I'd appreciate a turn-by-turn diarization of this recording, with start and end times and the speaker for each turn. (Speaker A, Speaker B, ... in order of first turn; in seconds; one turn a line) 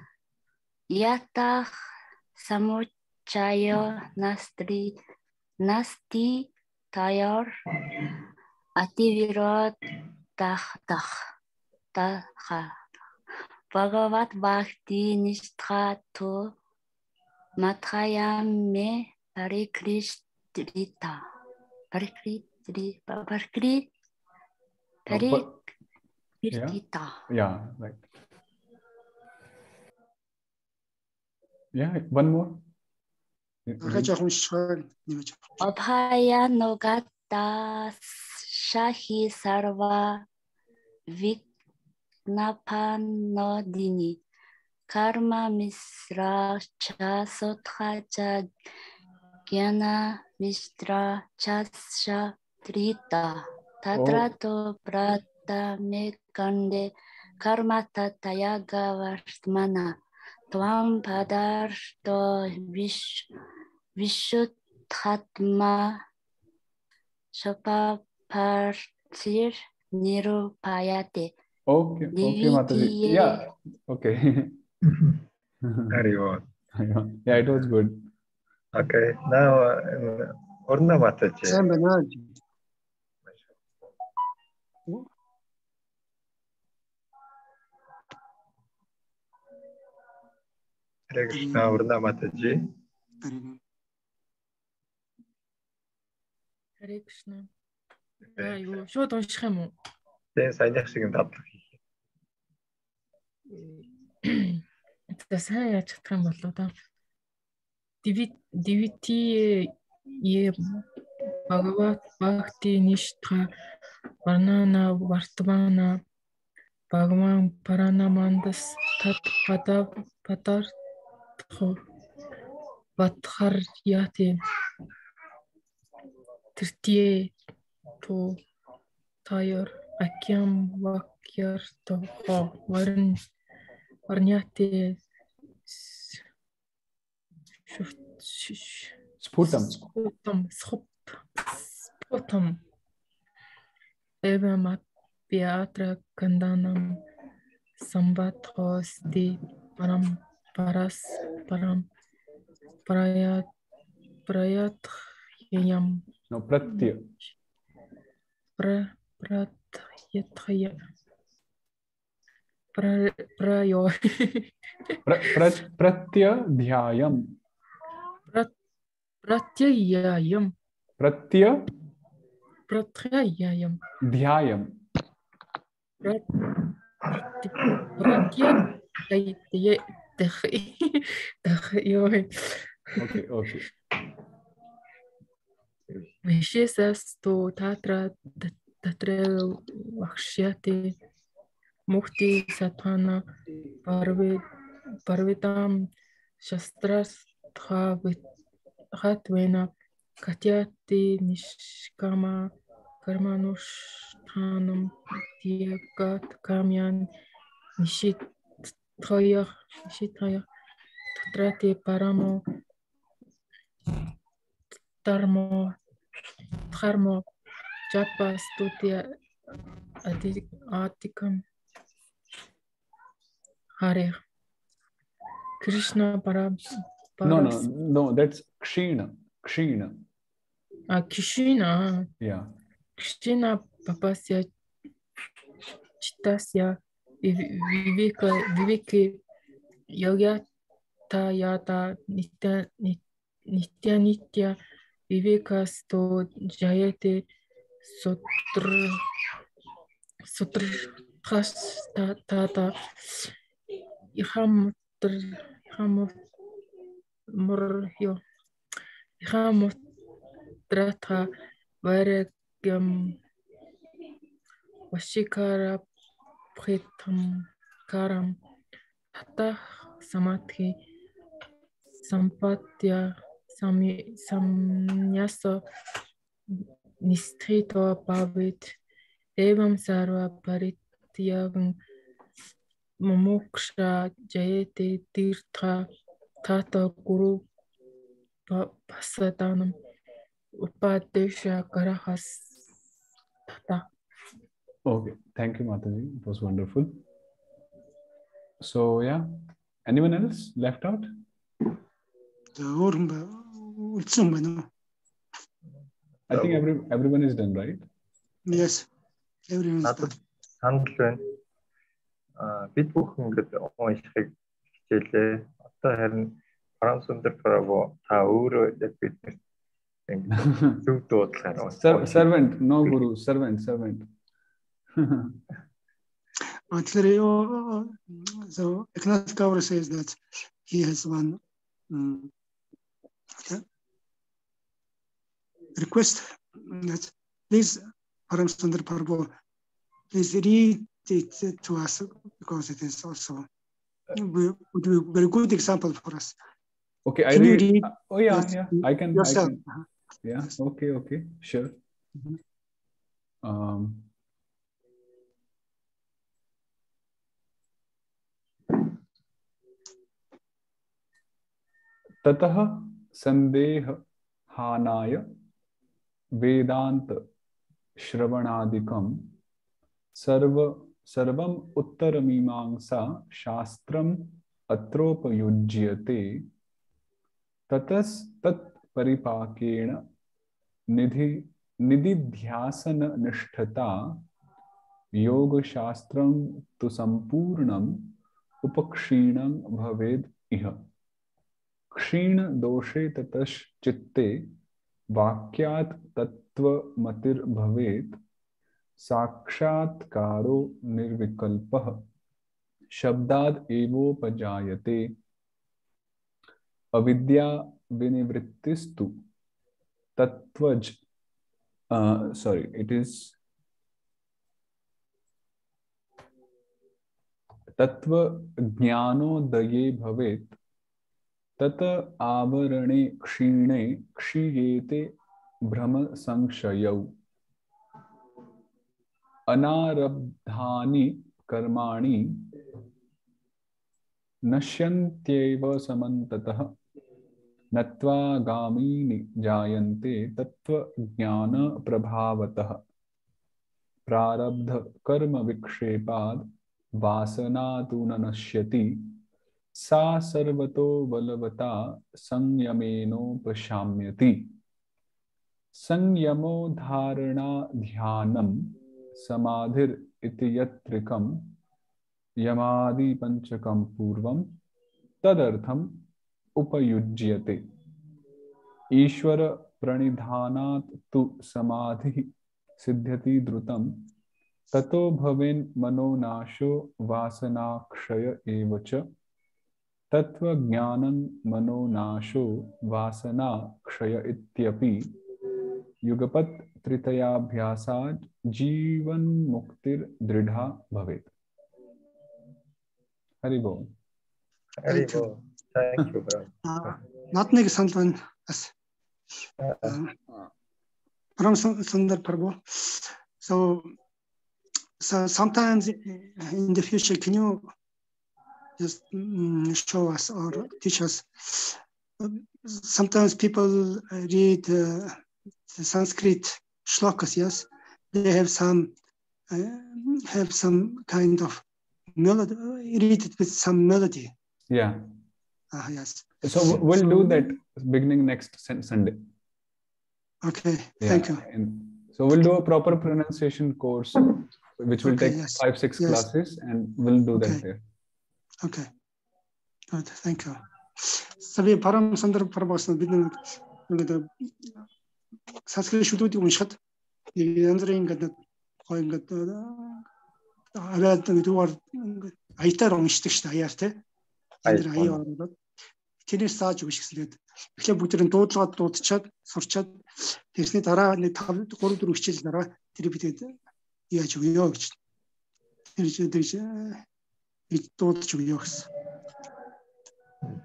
Speaker A: 0.9-1.7
Speaker A: 2.4-5.0
Speaker A: 5.6-7.5
Speaker A: 8.8-9.8
Speaker A: 10.4-11.1
Speaker A: 11.9-12.7
Speaker A: 13.7-16.5
Speaker A: 17.6-21.2
Speaker A: 21.9-23.9
Speaker A: 25.1-25.5
Speaker B: 25.1-25.6
Speaker A: 26.4-27.2
Speaker B: 26.5-28.1
Speaker B: 31.7-32.6
Speaker B: 33.7-34.1
Speaker C: 33.8-35.5
Speaker A: 35.6-40.2
Speaker A: 41.1-41.4
Speaker A: 42.3-44.2
Speaker A: 44.9-48.5
Speaker A: 49.5-60.0
Speaker B: 53.9-54.3
Speaker A: 60.5-63.3
Speaker A: 64.0-66.0
Speaker A: 67.4-71.3
Speaker B: 71.7-74.6
Speaker A: 72.1-73.5
Speaker D: 74.9-75.1
Speaker B: 75.6-76.0
Speaker D: 75.9-76.5
Speaker B: 76.8-78.1
Speaker D: 78.7-81.6
Speaker C: 81.5-82.4
Speaker D: 91.1-92.6
Speaker C: 91.3-91.6
Speaker C: 93.2-93.6
Speaker E: 96.8-97.5
Speaker D: 98.4-98.6
Speaker E: 98.4-99.7
Speaker D: 100.4-101.7
Speaker E: 103.5-104.6
Speaker E: 105.2-106.7
Speaker E: 108.0-109.7
Speaker E: 110.2-110.8
Speaker E: 111.5-113.5
Speaker E: 114.2-116.0
Speaker E: 116.9-120.7
Speaker E: 121.4-121.8
Speaker E: 123.0-124.4
Speaker E: 126.6-127.3
Speaker E: 128.0-128.4
Speaker E: 129.2-133.2
Speaker E: 134.1-135.0
Speaker E: 135.7-136.2
Speaker E: 137.7-142.6
Speaker B: 139.2-139.8
Speaker E: 144.2-147.0
Speaker E: 147.8-151.9
Speaker E: 152.9-153.5
Speaker E: 154.3-154.9
Speaker E: 155.5-156.0
Speaker B: 156.3-157.1
Speaker E: 158.6-160.8
Speaker E: 162.7-164.5
Speaker B: 165.1-167.4
Speaker E: 169.2-170.5
Speaker B: 171.0-171.7
Speaker E: 172.7-173.8
Speaker B: 174.0-174.8
Speaker E: 177.4-183.2
Speaker B: 183.0-183.7
Speaker E: 186.2-191.0
Speaker E: 191.9-193.2
Speaker E: 193.8-194.4
Speaker E: 195.1-195.9
Speaker E: 196.4-198.2
Speaker E: 198.9-207.1
Speaker E: 207.8-208.2
Speaker E: 209.0-210.4
Speaker E: 211.2-212.4
Speaker E: 215.0-215.8
Speaker E: 216.7-217.2
Speaker E: 217.9-219.1
Speaker E: 220.0-221.4
Speaker E: 223.8-224.2
Speaker E: 225.6-227.7
Speaker B: 227.2-230.1
Speaker E: 230.9-232.1
Speaker B: 232.2-232.5
Speaker E: 233.0-234.5
Speaker E: 236.0-239.2
Speaker E: 239.9-240.4
Speaker E: 241.1-244.6
Speaker E: 245.1-247.3
Speaker E: 247.9-249.0
Speaker E: 250.3-253.3
Speaker E: 254.1-256.2
Speaker E: 257.3-258.2
Speaker E: 259.2-259.8
Speaker E: 260.7-261.3
Speaker E: 261.8-263.2
Speaker E: 264.9-265.8
Speaker E: 266.6-268.4
Speaker E: 269.1-270.8
Speaker E: 272.0-275.6
Speaker E: 276.5-278.7
Speaker E: 279.4-281.8
Speaker E: 283.0-285.9
Speaker E: 286.4-287.4
Speaker E: 288.5-289.8
Speaker E: 290.6-292.6
Speaker E: 293.5-293.9
Speaker B: 294.9-297.0
Speaker B: 298.6-301.1
Speaker C: 302.6-304.7
Speaker B: 306.3-307.9
Speaker D: 306.3-306.6
Speaker C: 308.5-308.9
Speaker C: 309.5-310.1
Speaker D: 309.8-311.2
Speaker D: 312.4-319.4
Speaker D: 320.1-322.3
Speaker B: 320.4-320.9
Speaker B: 321.7-324.1
Speaker B: 324.9-325.4
Speaker C: 326.7-332.3
Speaker C: 333.4-333.6
Speaker C: 335.8-339.3
Speaker C: 340.1-343.5
Speaker C: 344.1-346.4
Speaker B: 347.1-349.6
Speaker C: 347.3-349.8
Speaker B: 350.2-351.8
Speaker B: 353.4-354.1
Speaker B: 362.2-365.3
Speaker B: 366.4-367.3
Speaker B: 368.0-369.3
Speaker B: 370.1-376.5
Speaker B: 377.7-380.0
Speaker B: 380.9-384.2
Speaker B: 385.1-390.9
Speaker B: 391.9-394.6
Speaker B: 395.1-398.2
Speaker B: 399.0-402.1
Speaker B: 402.9-405.1
Speaker B: 406.9-409.2
Speaker B: 410.2-411.0
Speaker B: 411.9-413.4
Speaker B: 417.8-420.6
Speaker B: 421.6-425.1
Speaker B: 425.7-427.1
Speaker B: 429.5-432.5
Speaker B: 434.5-436.8
Speaker B: 437.7-442.8
Speaker B: 444.1-449.2
Speaker B: 449.7-454.5
Speaker B: 455.7-461.6
Speaker B: 462.4-464.6
Speaker B: 465.2-466.1
Speaker B: 466.6-467.6
Speaker B: 468.9-474.1
Speaker B: 474.7-479.1
Speaker B: 480.1-485.1
Speaker B: 486.0-491.3
Speaker B: 493.4-493.9
Speaker D: 494.8-497.0
Speaker C: 494.9-495.3
Speaker C: 496.6-498.7
Speaker D: 499.6-500.0
Speaker C: 499.9-500.1
Speaker C: 501.4-503.9
Speaker C: 505.0-507.7
Speaker C: 508.8-518.9
Speaker C: 519.5-521.6
Speaker C: 522.1-524.3
Speaker B: 524.7-525.1
Speaker C: 525.7-527.5
Speaker B: 526.4-529.2
Speaker C: 530.4-531.4
Speaker B: 531.0-537.8
Speaker C: 535.0-536.2
Speaker C: 537.4-537.6
Speaker C: 538.6-538.9
Speaker C: 539.9-544.9
Speaker C: 545.7-546.8
Speaker C: 547.3-550.0
Speaker C: 550.7-554.0
Speaker C: 554.6-555.6
Speaker D: 554.6-555.2
Speaker C: 556.2-563.6
Speaker C: 564.1-565.0
Speaker C: 566.0-567.0
Speaker C: 567.7-568.9